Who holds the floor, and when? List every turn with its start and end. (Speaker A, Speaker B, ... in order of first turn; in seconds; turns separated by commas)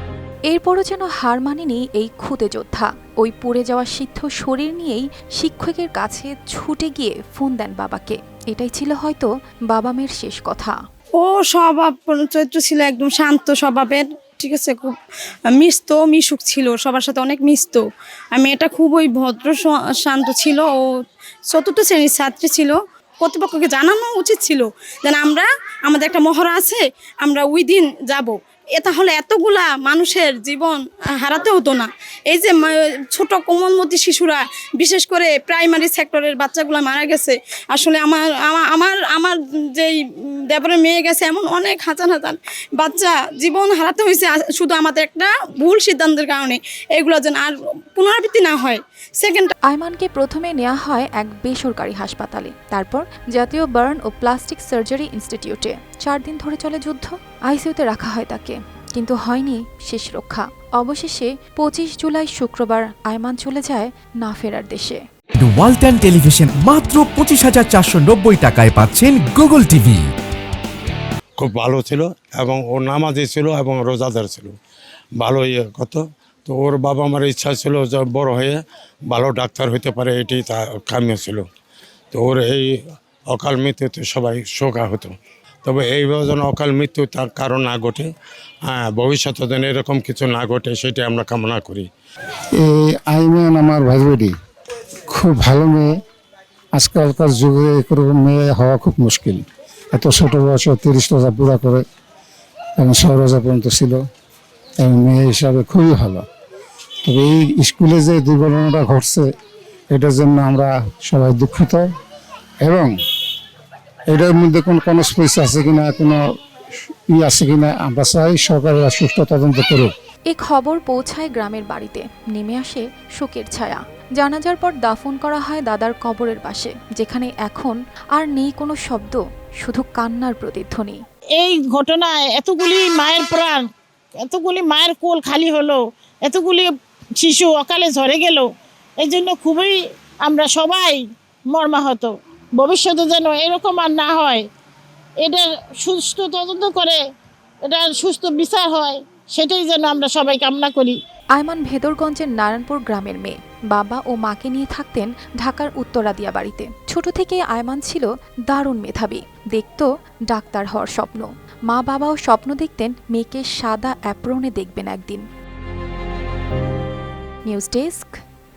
Speaker A: 0.5-10.8, Speaker B: 11.2-14.9, Speaker B: 15.5-20.8, Speaker B: 21.5-40.0, Speaker B: 40.5-49.5, Speaker A: 49.7-65.0, Speaker C: 65.4-70.1, Speaker D: 71.4-74.5, Speaker D: 75.2-81.5, Speaker D: 82.1-82.7, Speaker D: 83.3-88.1, Speaker D: 88.7-91.9, Speaker E: 92.6-94.3, Speaker E: 95.1-95.9, Speaker E: 96.8-101.8, Speaker E: 102.8-104.0, Speaker E: 104.8-106.2, Speaker E: 107.0-109.3, Speaker E: 109.9-111.9, Speaker E: 112.6-112.9, Speaker E: 114.1-116.2, Speaker E: 117.1-119.9, Speaker A: 120.3-131.0, Speaker F: 131.4-133.6, Speaker F: 134.3-138.5, Speaker F: 139.0-139.7, Speaker F: 140.2-141.0, Speaker F: 141.5-144.4, Speaker F: 145.2-147.0, Speaker F: 147.7-151.0, Speaker A: 151.3-165.3, Speaker A: 167.5-168.2